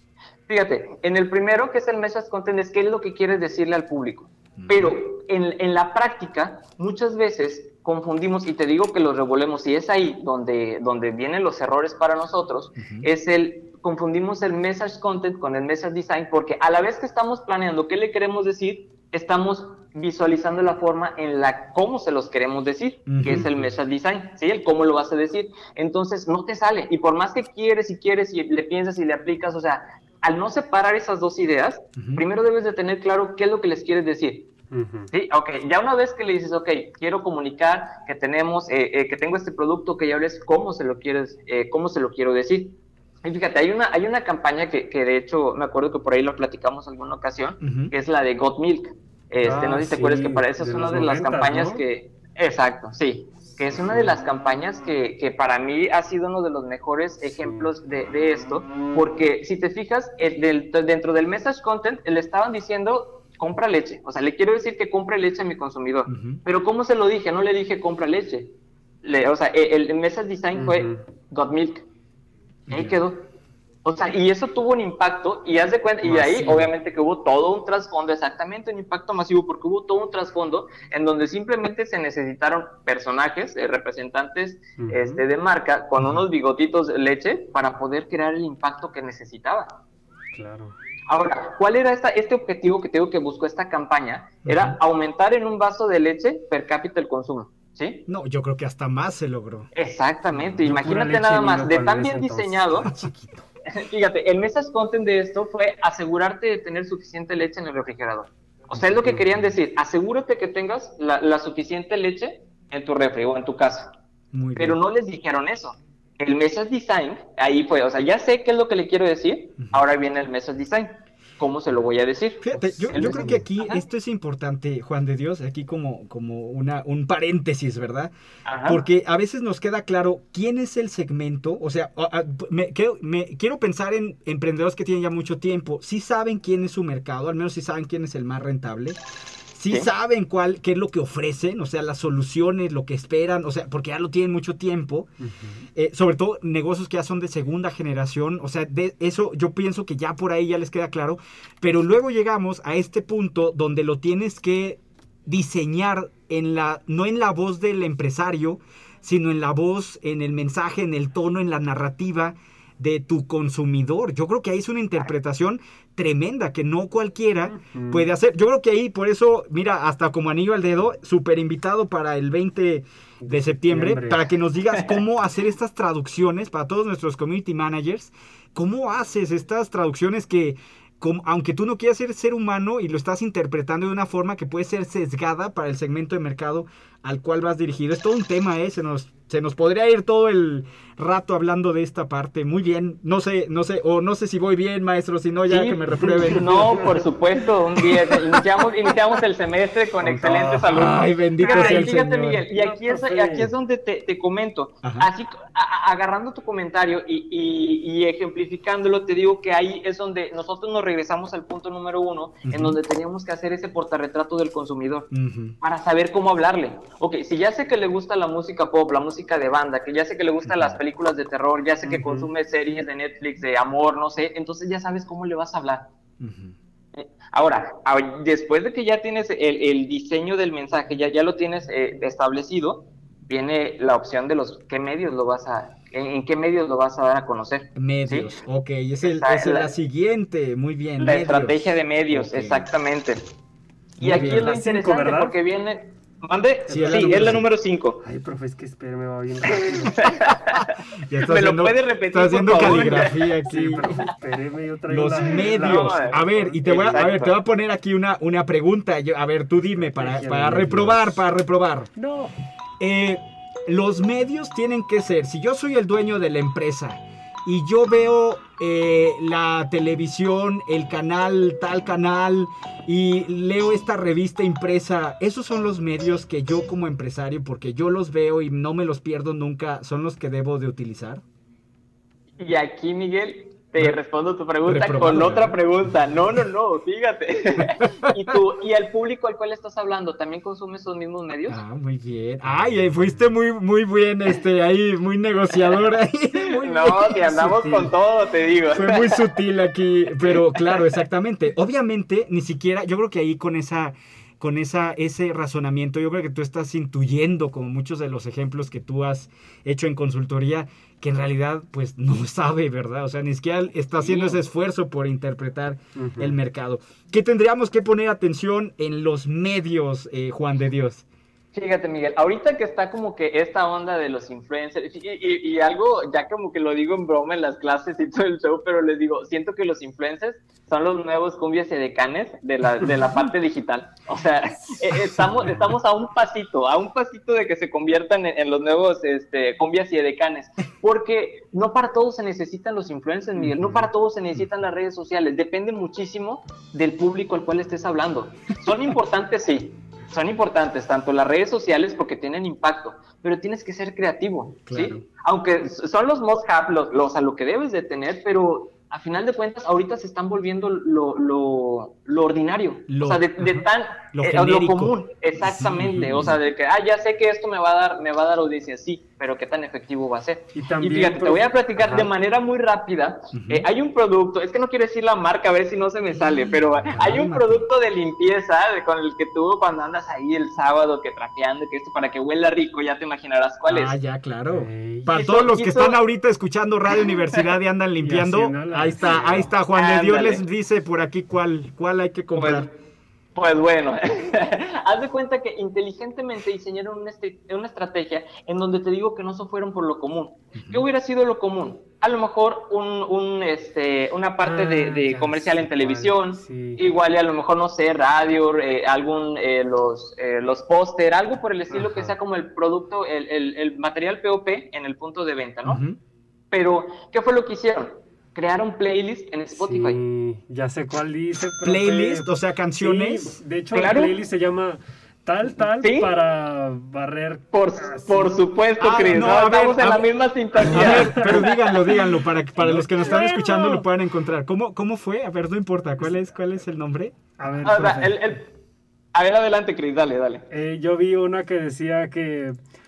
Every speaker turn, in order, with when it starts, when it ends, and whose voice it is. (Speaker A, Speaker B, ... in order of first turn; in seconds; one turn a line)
Speaker A: 0.5-34.5
Speaker B: 4.6-5.0
Speaker B: 12.8-13.1
Speaker B: 23.1-23.5
Speaker C: 23.2-23.6
Speaker B: 32.0-32.2
Speaker C: 34.7-35.1
Speaker A: 35.1-71.8
Speaker B: 47.6-47.9
Speaker C: 49.4-51.8
Speaker C: 53.9-54.2
Speaker C: 57.2-57.7
Speaker B: 66.1-66.4
Speaker C: 70.5-71.0
Speaker B: 72.7-73.0
Speaker A: 72.7-73.3
Speaker A: 73.8-89.8
Speaker C: 76.0-76.7
Speaker C: 84.8-85.2
Speaker C: 90.3-90.7
Speaker A: 91.1-98.1
Speaker B: 94.5-94.8
Speaker B: 98.1-99.7
Speaker A: 99.8-102.9
Speaker C: 100.4-103.5
Speaker A: 103.7-113.9
Speaker B: 114.3-114.8
Speaker A: 114.6-123.8
Speaker B: 122.4-128.1
Speaker C: 122.5-123.4
Speaker A: 128.5-128.8
Speaker B: 128.7-139.0
Speaker B: 139.6-145.1
Speaker C: 145.2-145.7
Speaker B: 145.8-196.6
Speaker C: 167.5-168.1
Speaker C: 173.2-174.3
Speaker A: 195.5-215.1
Speaker C: 196.1-197.0
Speaker C: 200.0-200.9
Speaker B: 200.7-202.4
Speaker C: 201.4-201.9
Speaker C: 202.5-203.5
Speaker B: 204.8-205.1
Speaker B: 212.5-212.8
Speaker B: 215.1-215.6
Speaker A: 215.6-225.9
Speaker C: 221.8-222.3
Speaker B: 226.2-226.6
Speaker A: 226.9-238.3
Speaker B: 237.8-242.6
Speaker A: 239.0-239.7
Speaker A: 241.0-243.3
Speaker A: 244.0-248.0
Speaker B: 244.0-244.5
Speaker C: 244.1-245.3
Speaker C: 246.7-247.4
Speaker B: 246.7-247.4
Speaker C: 248.0-250.1
Speaker A: 249.9-253.2
Speaker B: 251.1-254.1
Speaker C: 252.6-257.0
Speaker B: 254.9-261.9
Speaker A: 255.2-257.4
Speaker C: 259.8-261.2
Speaker C: 262.0-262.4
Speaker B: 262.8-281.2
Speaker A: 282.4-291.6
Speaker B: 284.6-285.6
Speaker B: 287.6-288.4
Speaker B: 291.5-297.3
Speaker C: 292.4-293.1
Speaker A: 296.4-299.2
Speaker C: 297.3-297.9
Speaker B: 298.7-321.0
Speaker A: 300.3-301.0
Speaker A: 314.0-314.4
Speaker C: 316.0-316.4
Speaker A: 321.5-384.0
Speaker B: 334.9-335.7
Speaker C: 343.4-343.9
Speaker B: 354.7-355.0
Speaker B: 362.9-363.3
Speaker B: 364.1-366.3
Speaker C: 365.8-366.3
Speaker C: 370.5-372.1
Speaker B: 373.4-373.7
Speaker B: 376.9-377.7
Speaker B: 383.7-392.7
Speaker C: 384.5-385.2
Speaker A: 385.1-386.0
Speaker A: 386.9-387.4
Speaker C: 388.0-389.5
Speaker A: 389.7-390.4
Speaker A: 392.4-392.7
Speaker A: 393.4-415.8
Speaker B: 400.6-400.9
Speaker C: 404.4-406.8
Speaker C: 411.7-412.1
Speaker B: 415.6-416.0
Speaker A: 416.5-420.0
Speaker C: 419.5-428.4
Speaker B: 421.6-423.4
Speaker A: 423.7-424.1
Speaker A: 425.8-426.1
Speaker A: 427.5-431.8
Speaker B: 428.8-437.1
Speaker C: 429.1-429.6
Speaker C: 430.6-432.0
Speaker C: 432.6-433.9
Speaker C: 437.4-438.4
Speaker A: 437.6-438.5
Speaker A: 439.1-440.5
Speaker C: 440.5-442.6